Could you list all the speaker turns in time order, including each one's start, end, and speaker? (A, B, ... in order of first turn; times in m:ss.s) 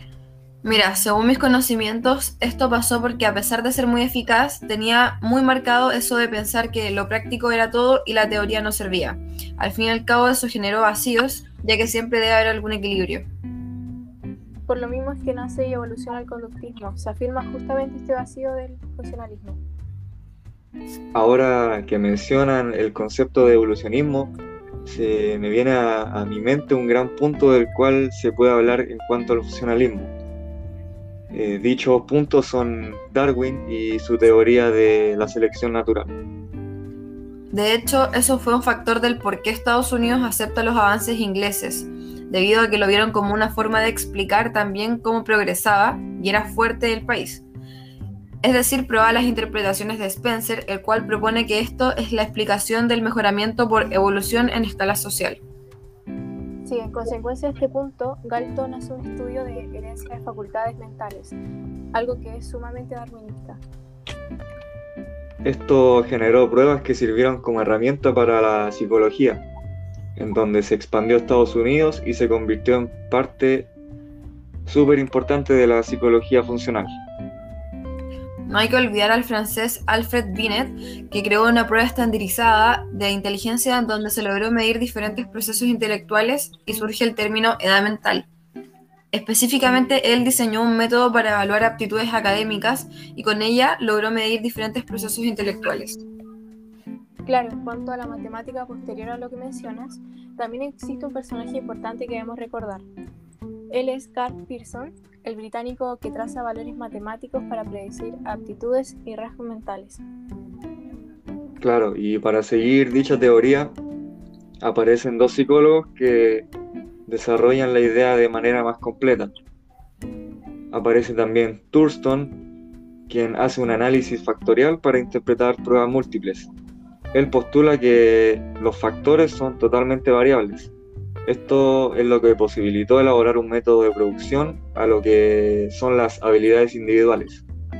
0:00.6-0:13.2 A
0:14.7-0:19.6 B
0:21.1-0:24.3 C
0:24.8-0:30.1 C
0:31.3-0:36.1 C
0:37.5-0:47.4 A
0:48.4-0:55.4 A
0:56.6-1:01.3 B
1:01.9-1:03.6 B
1:05.4-1:09.4 C
1:10.2-1:13.7 C
1:14.7-1:16.9 C
1:18.4-1:28.3 A
1:29.1-1:36.0 A
1:37.2-1:42.8 B
1:43.7-1:50.0 B
1:51.6-1:53.7 C
1:54.6-1:56.5 C
1:57.1-1:59.3 C
2:00.7-2:02.4 C
2:03.1-2:06.5 C
2:07.1-2:10.7 C
2:11.2-2:17.4 C